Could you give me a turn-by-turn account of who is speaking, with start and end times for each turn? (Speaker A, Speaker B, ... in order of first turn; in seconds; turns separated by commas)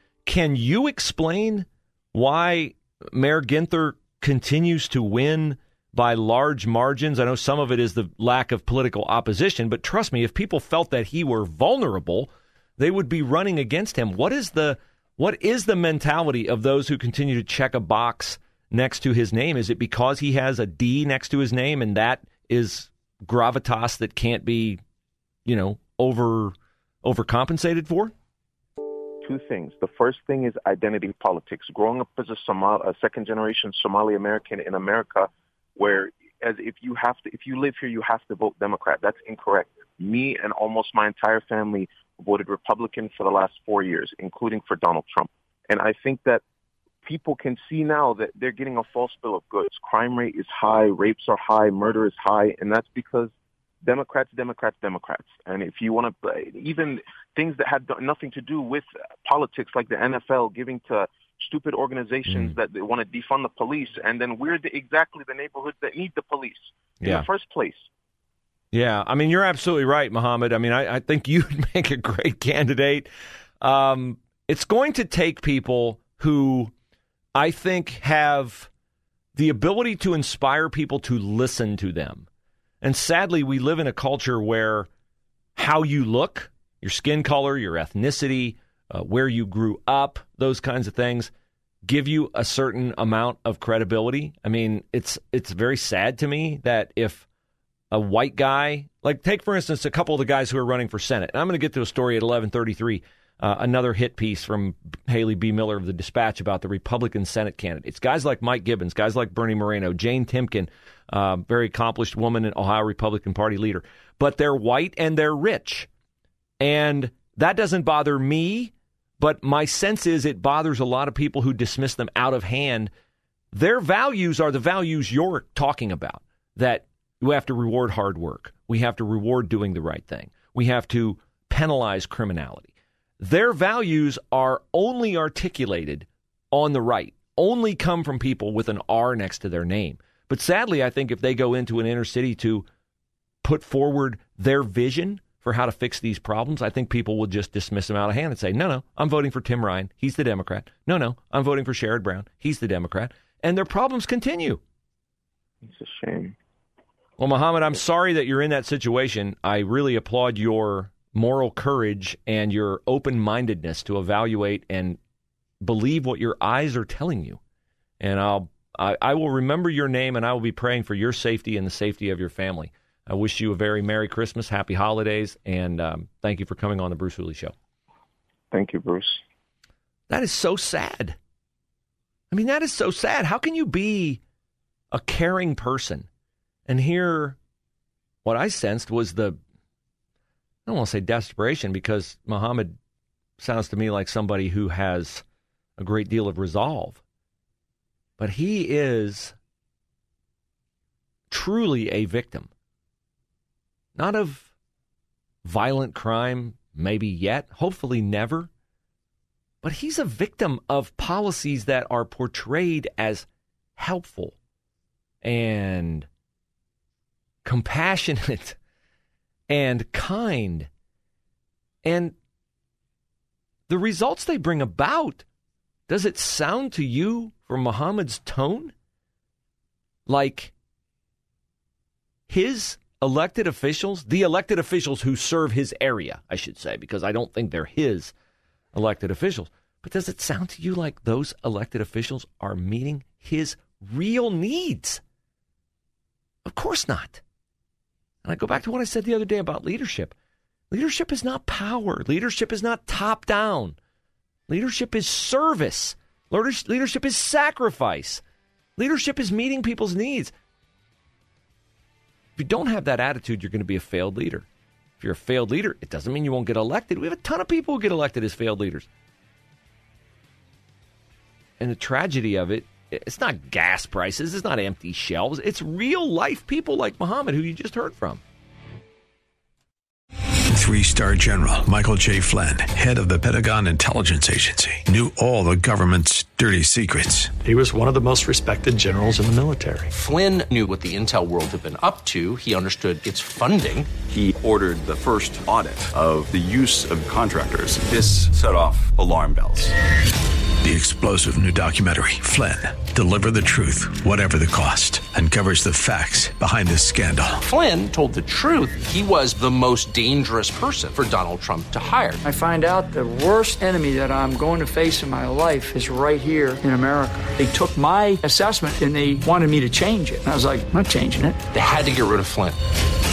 Speaker A: 0.2-24.8, Speaker A: 25.4-28.1, Speaker B: 29.2-46.4, Speaker B: 47.0-53.3, Speaker B: 53.8-67.8, Speaker A: 62.3-62.5, Speaker A: 68.7-73.1, Speaker A: 73.6-76.7, Speaker A: 77.3-78.7, Speaker A: 79.3-82.3, Speaker A: 82.8-84.9, Speaker A: 85.5-91.3, Speaker A: 91.8-97.2, Speaker A: 97.9-115.9, Speaker A: 116.6-122.9, Speaker A: 123.5-142.6, Speaker A: 143.4-154.6, Speaker B: 155.6-156.3, Speaker A: 157.2-165.0, Speaker A: 165.6-167.4, Speaker A: 168.0-177.5, Speaker B: 178.5-179.2, Speaker A: 180.1-181.2, Speaker A: 182.3-184.2, Speaker A: 184.9-186.1, Speaker A: 186.7-187.4, Speaker A: 188.2-189.4, Speaker A: 190.7-192.8, Speaker A: 193.4-195.2, Speaker A: 195.8-197.0, Speaker A: 198.2-199.3, Speaker A: 201.3-202.5, Speaker A: 203.9-204.5, Speaker A: 205.4-208.5, Speaker A: 209.6-214.3, Speaker A: 215.2-216.1, Speaker A: 217.4-218.6, Speaker A: 219.5-220.7, Speaker A: 221.8-222.1, Speaker A: 223.7-225.2, Speaker A: 225.9-228.7, Speaker A: 230.1-230.5, Speaker A: 232.3-238.1, Speaker A: 238.7-245.0, Speaker A: 246.4-247.2, Speaker A: 248.2-250.1, Speaker A: 250.7-253.8, Speaker A: 254.5-258.2, Speaker A: 258.8-260.3, Speaker A: 262.4-264.5, Speaker A: 265.0-268.9, Speaker A: 271.6-278.2, Speaker C: 280.5-287.4, Speaker D: 287.4-289.9, Speaker E: 289.9-293.9, Speaker F: 294.1-299.7, Speaker C: 300.6-307.4, Speaker E: 307.4-312.2, Speaker G: 312.2-321.4, Speaker E: 321.5-322.6